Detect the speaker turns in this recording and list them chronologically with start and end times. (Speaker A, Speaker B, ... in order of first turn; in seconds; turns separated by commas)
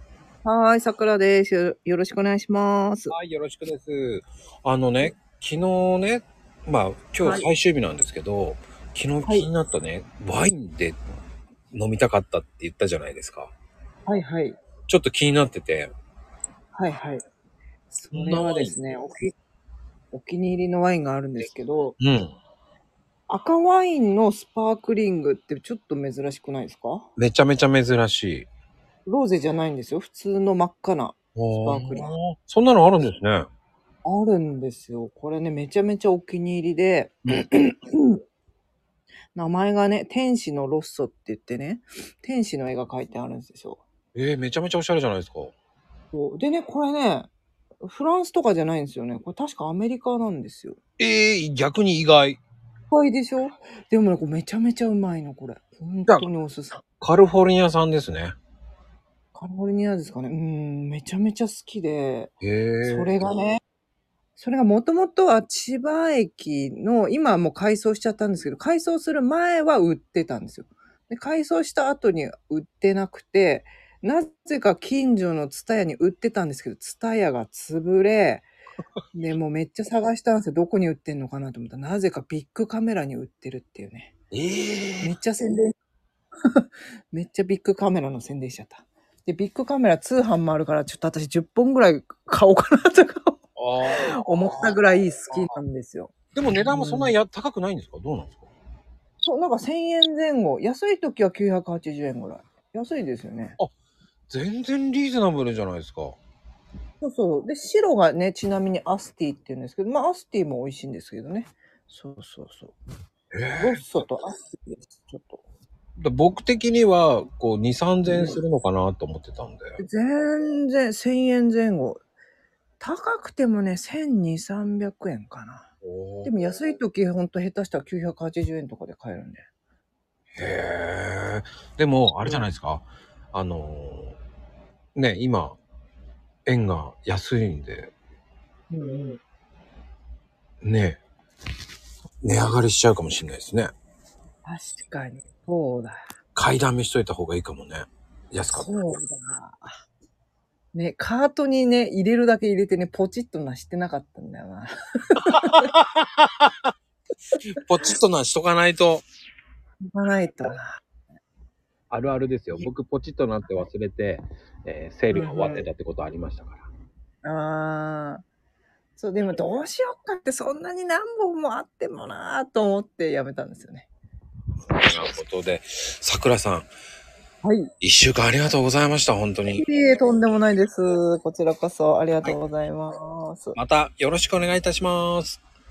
Speaker A: 0.4-3.1, Speaker B: 3.1-11.0, Speaker A: 7.2-7.5, Speaker B: 11.7-13.5, Speaker A: 14.1-14.6, Speaker B: 14.9-15.9, Speaker A: 16.8-17.2, Speaker A: 17.9-19.3, Speaker B: 18.1-18.7, Speaker A: 20.1-22.0, Speaker B: 22.0-22.4, Speaker A: 23.3-27.1, Speaker B: 27.2-28.5, Speaker A: 29.1-32.1, Speaker B: 31.4-33.5, Speaker A: 34.0-38.2, Speaker A: 39.3-43.8, Speaker B: 44.1-45.5, Speaker A: 46.1-47.3, Speaker A: 47.8-50.8, Speaker B: 51.0-52.4, Speaker A: 52.9-56.8, Speaker B: 57.0-58.3, Speaker A: 59.4-62.3, Speaker B: 62.4-63.1, Speaker A: 62.8-63.6, Speaker A: 64.4-78.5, Speaker A: 79.1-84.1, Speaker B: 84.3-85.1, Speaker A: 85.0-85.7, Speaker A: 86.6-97.2, Speaker B: 93.6-94.8, Speaker B: 96.3-98.5, Speaker A: 99.2-103.6, Speaker B: 104.3-106.2, Speaker A: 107.0-112.8, Speaker B: 113.3-113.8, Speaker A: 113.5-115.4, Speaker B: 116.0-119.8, Speaker A: 118.0-118.4, Speaker A: 119.8-122.0, Speaker A: 122.8-125.7, Speaker B: 125.8-126.4, Speaker A: 126.2-129.4, Speaker B: 130.4-134.2, Speaker B: 134.9-135.6, Speaker B: 136.5-137.9, Speaker A: 138.7-139.2, Speaker B: 140.6-141.0, Speaker B: 142.2-143.7, Speaker A: 144.4-146.1, Speaker B: 146.3-148.7, Speaker A: 148.5-149.7, Speaker A: 150.7-155.7, Speaker B: 155.3-156.7, Speaker B: 157.5-159.1, Speaker A: 159.9-160.7, Speaker B: 161.9-166.7, Speaker A: 165.1-165.7, Speaker A: 167.2-168.2, Speaker A: 169.0-173.9, Speaker B: 174.7-176.7, Speaker A: 177.4-177.7, Speaker B: 177.8-179.7, Speaker A: 179.5-183.6, Speaker B: 183.6-185.4